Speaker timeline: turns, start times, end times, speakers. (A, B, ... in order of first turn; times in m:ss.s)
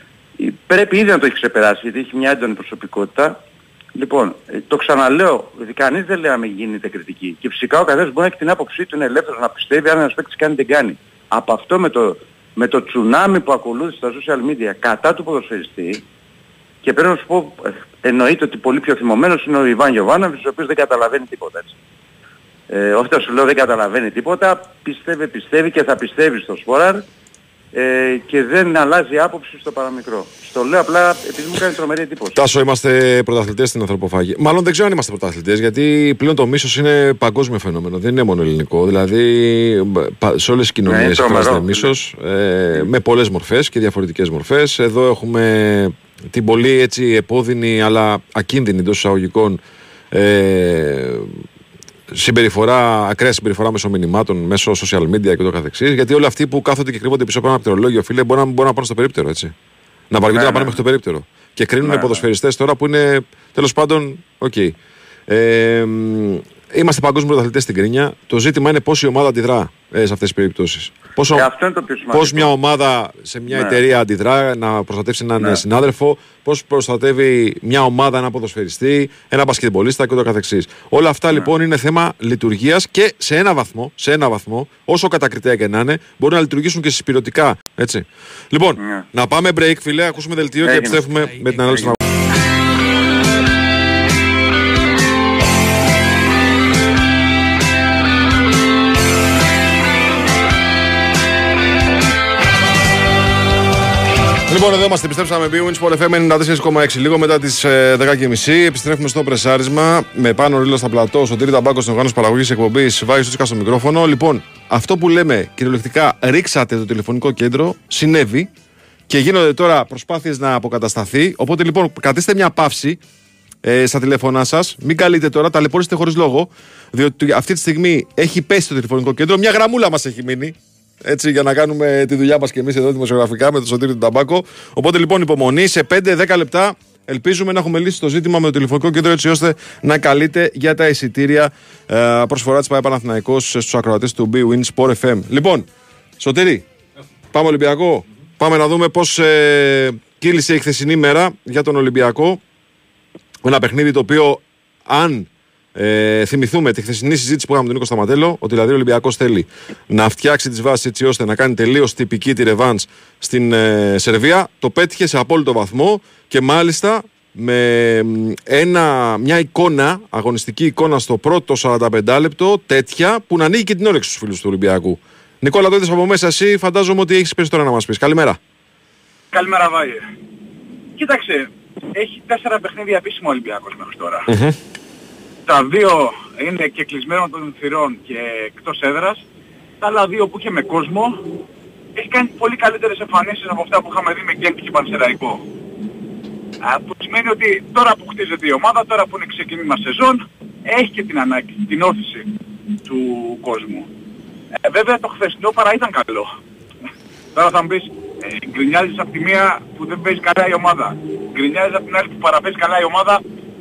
0:00.4-0:03.4 A
0:03.9-0:16.0 A
0:16.8-0:21.8 A
0:22.7-0:27.0 A
0:27.7-0:32.4 A
0:32.3-0:51.4 B
0:40.9-0:41.9 A
0:52.1-0:59.5 B
1:00.1-1:04.8 B
1:00.3-1:00.8 A
1:01.8-1:02.2 A
1:05.3-1:11.5 B
1:11.3-1:12.5 A
1:12.1-1:32.0 B
1:13.5-1:13.8 A
1:28.8-1:29.1 A
1:30.6-1:31.0 A
1:44.5-1:58.5 B
1:59.1-2:03.0 B
2:03.6-2:25.7 B
2:26.2-2:26.6 B
2:27.3-2:32.4 B
2:33.4-2:58.4 B
2:59.3-3:00.0 C
3:01.0-3:04.3 C
3:04.3-3:04.6 B
3:05.4-3:09.2 C
3:09.8-3:11.2 C
3:12.0-3:15.4 C
3:16.6-3:22.3 C
3:22.8-3:23.9 C
3:24.6-3:26.3 C
3:27.3-3:33.2 C